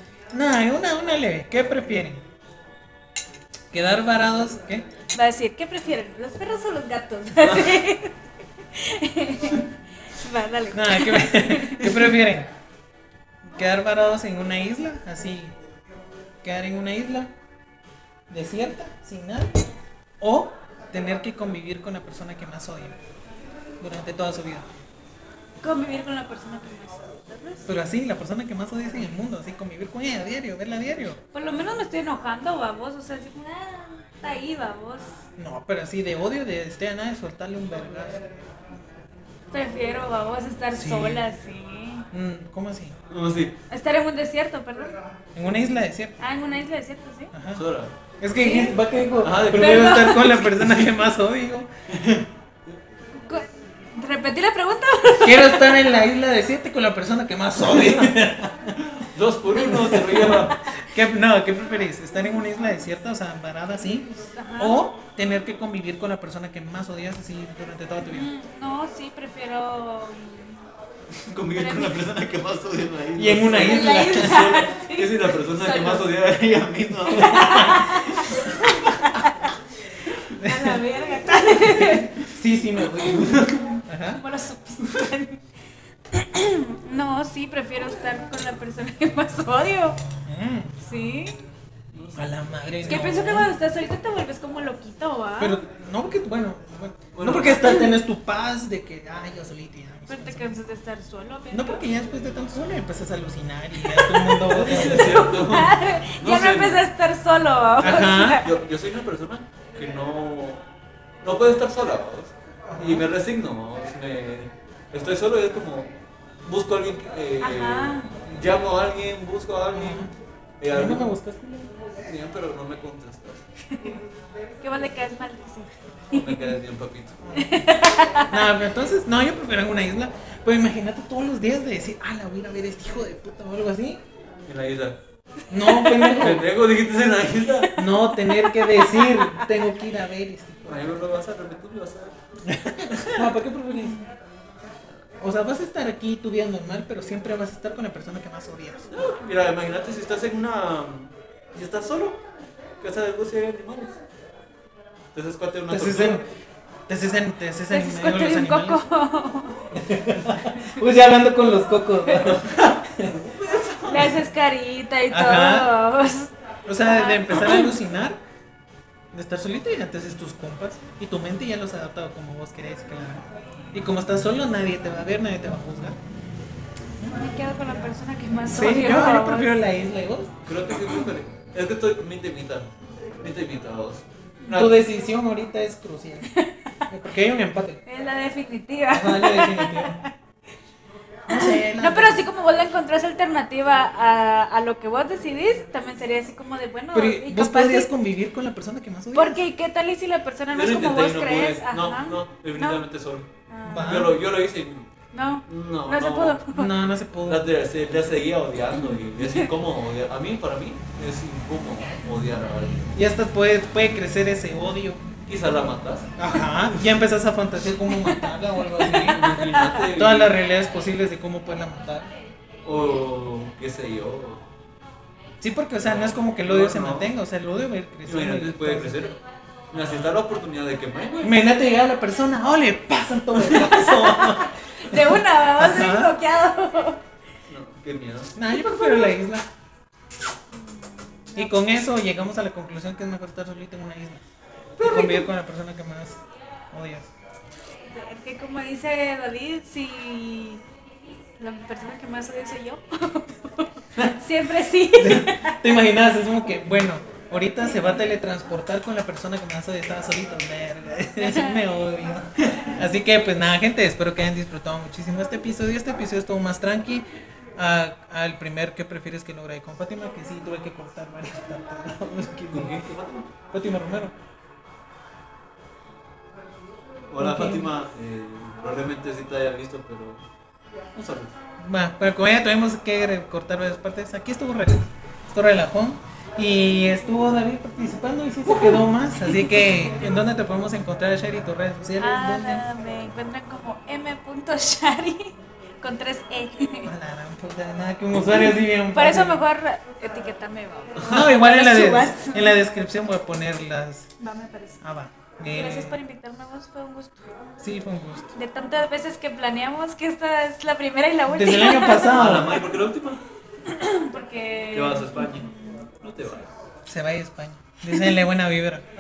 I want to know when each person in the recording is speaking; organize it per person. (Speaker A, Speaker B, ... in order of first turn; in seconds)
Speaker A: 0.3-2.2, 3.7-4.9, 10.7-12.5, 13.5-15.6, 16.4-17.3, 18.3-19.6, 20.2-23.0, 23.8-24.7, 27.7-31.2, 35.4-38.3, 40.7-41.2, 42.1-43.0, 45.4-46.2, 47.3-47.7, 48.2-51.7, 55.2-58.8, 59.5-68.3, 73.2-74.6, 77.3-77.8, 80.4-80.8, 81.5-84.2, 90.3-90.8, 92.2-93.5, 95.4-100.5, 101.5-105.4, 107.8-108.4, 112.7-113.1, 119.7-120.1, 120.7-121.7, 127.2-127.5, 128.3-134.0, 135.5-136.5, 137.8-140.9, 142.4-144.0, 145.2-148.9, 155.7-156.2, 156.9-158.9, 159.7-163.1, 165.1-165.7, 166.7-168.2, 169.1-176.0, 178.5-180.3, 184.5-186.3, 186.9-187.8, 188.9-190.0, 191.3-192.3, 196.9-199.4, 203.7-204.2, 206.5-207.5, 212.9-215.0, 216.2-219.3, 219.8-222.1, 225.4-229.1, 229.7-230.1, 231.2-236.1, 238.4-239.5, 241.3-244.2, 244.8-246.2, 246.7-247.1, 254.9-267.1, 267.6-272.8, 273.5-274.1, 277.2-277.7, 281.6-292.7, 296.9-299.4, 301.0-304.1, 304.8-306.0, 307.6-308.3, 311.3-312.7, 316.9-318.8
Speaker B: 5.1-12.1, 25.6-27.7, 31.3-35.1, 39.5-42.1, 43.7-45.0, 46.2-47.3, 48.3-48.8, 49.5-50.4, 53.3-55.9, 64.1-64.8, 68.0-70.6, 71.5-72.0, 73.5-76.1, 77.1-79.5, 80.3-82.2, 83.0-85.4, 86.1-90.0, 90.8-91.4, 92.9-95.6, 100.1-101.8, 103.8-108.5, 117.4-118.1, 124.6-126.6, 127.3-128.4, 135.6-136.2, 137.6-139.6, 157.7-159.7, 163.9-166.3, 166.8-167.8, 177.0-179.6, 186.3-186.6, 187.9-190.1, 191.3-197.9, 199.1-202.8, 203.5-204.1, 205.1-206.8, 208.8-209.5, 218.8-219.8, 234.2-237.0, 238.5-239.1, 240.5-241.5, 247.9-250.6, 251.4-255.6, 261.2-261.6, 292.0-296.9, 298.3-302.6, 304.2-304.8, 305.5-307.3, 308.3-312.2, 313.7-315.8
Speaker C: 7.4-7.8, 43.1-43.6, 47.5-48.0, 49.2-50.9, 51.9-52.3, 57.7-58.2, 58.8-60.6, 71.2-79.0, 83.0-83.6, 91.9-93.2, 97.1-97.9, 104.4-106.8, 107.8-110.6, 111.2-115.9, 116.5-121.1, 122.0-123.5, 126.1-127.2, 134.5-135.0, 136.0-137.8, 140.7-142.2, 142.8-143.3, 148.9-152.2, 152.8-154.0, 155.1-156.2, 162.1-164.2, 167.3-167.6, 180.4-184.8, 200.5-204.9, 205.4-206.4, 207.2-212.9, 215.2-216.2, 219.0-220.4, 222.6-224.4, 225.8-227.1, 228.1-229.2, 229.7-231.4, 233.4-233.9, 237.5-238.3, 244.8-245.3, 272.5-273.3, 277.1-280.2, 280.9-281.3, 312.1-313.2, 314.7-316.5